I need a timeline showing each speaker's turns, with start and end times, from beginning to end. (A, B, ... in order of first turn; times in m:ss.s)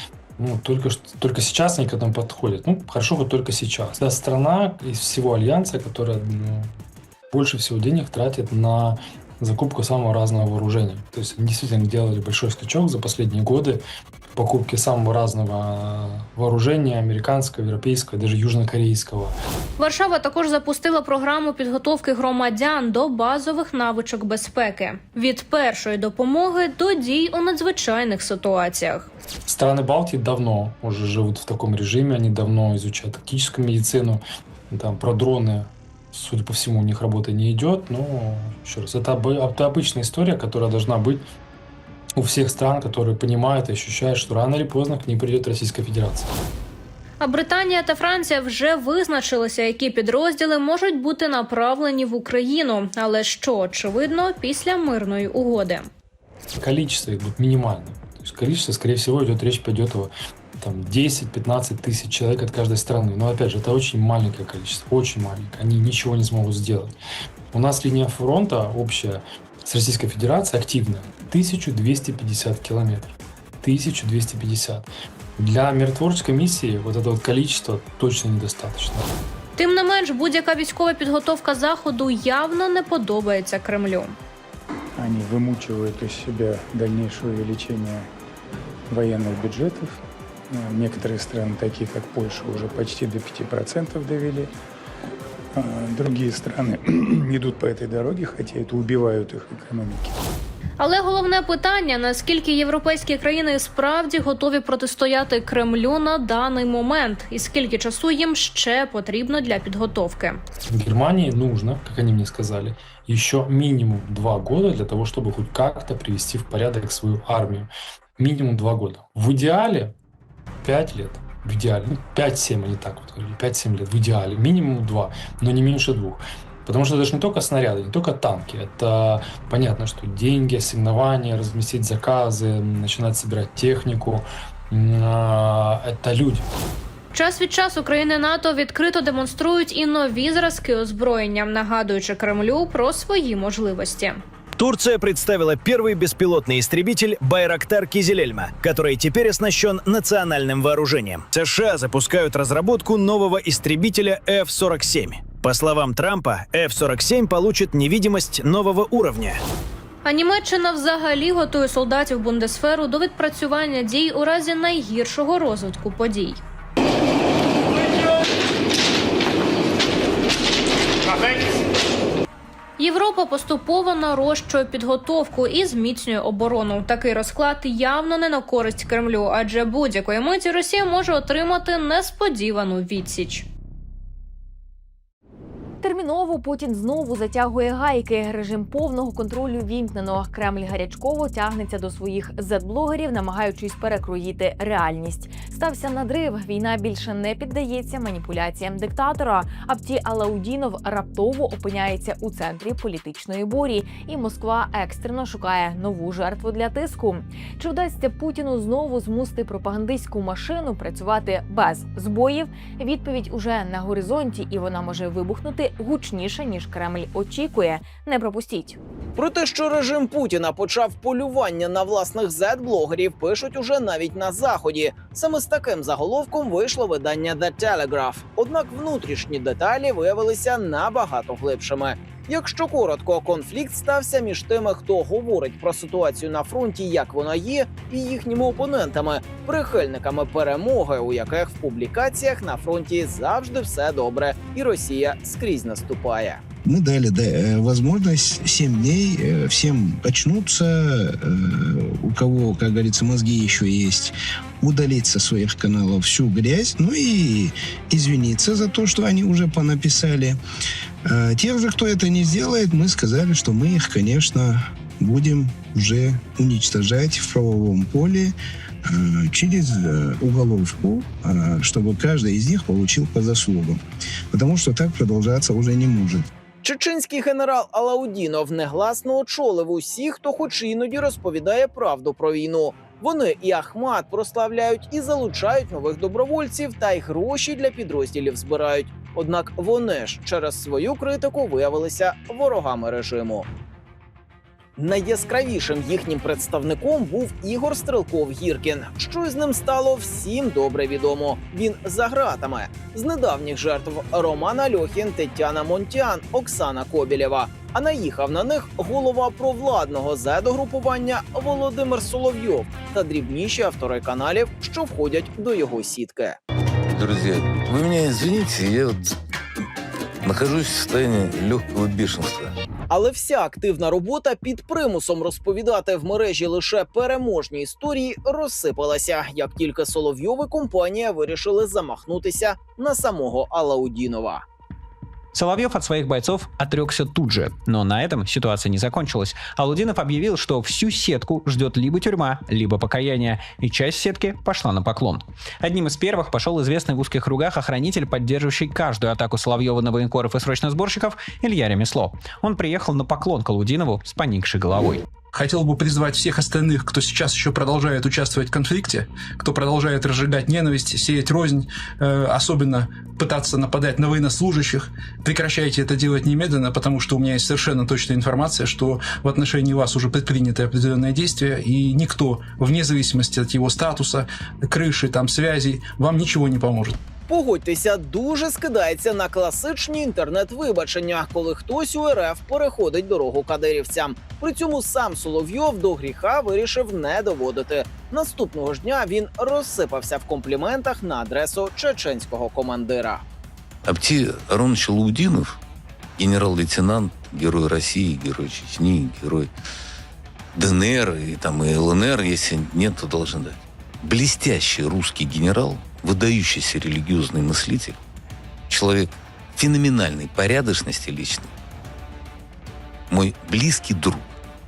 0:00.4-0:06.7 A
0:07.3-0:13.8 A
0:14.4-0:19.4 A
0:19.8-0:29.1 B
0:29.5-0:41.2 A
0:42.2-0:46.3 A
0:47.2-0:55.9 B
0:56.6-1:07.0 A
1:07.5-1:19.0 A
1:19.6-1:24.2 B
1:25.0-1:28.1 C
1:28.9-1:34.5 C
1:35.6-1:40.2 C
1:40.8-1:50.4 B
1:50.7-1:59.9 A
2:00.6-2:16.5 A
2:17.1-2:24.2 B
2:24.6-2:39.4 D
2:40.0-2:46.4 B
2:52.8-3:03.5 B
3:05.8-3:38.8 E
3:39.2-4:06.4 F
4:06.6-4:20.4 G
4:21.0-4:33.8 G
4:34.3-4:36.3 G
4:36.6-4:53.5 F
4:54.8-5:16.4 F
5:16.9-5:19.2 H
5:20.2-5:22.6 H
5:22.9-5:34.4 F
5:35.3-5:55.0 I
5:55.3-6:17.0 J
6:17.3-6:33.2 F
6:33.9-6:35.6 H
6:36.2-6:39.5 H
6:40.6-6:48.0 H
6:48.7-6:51.5 H
6:53.1-6:54.3 H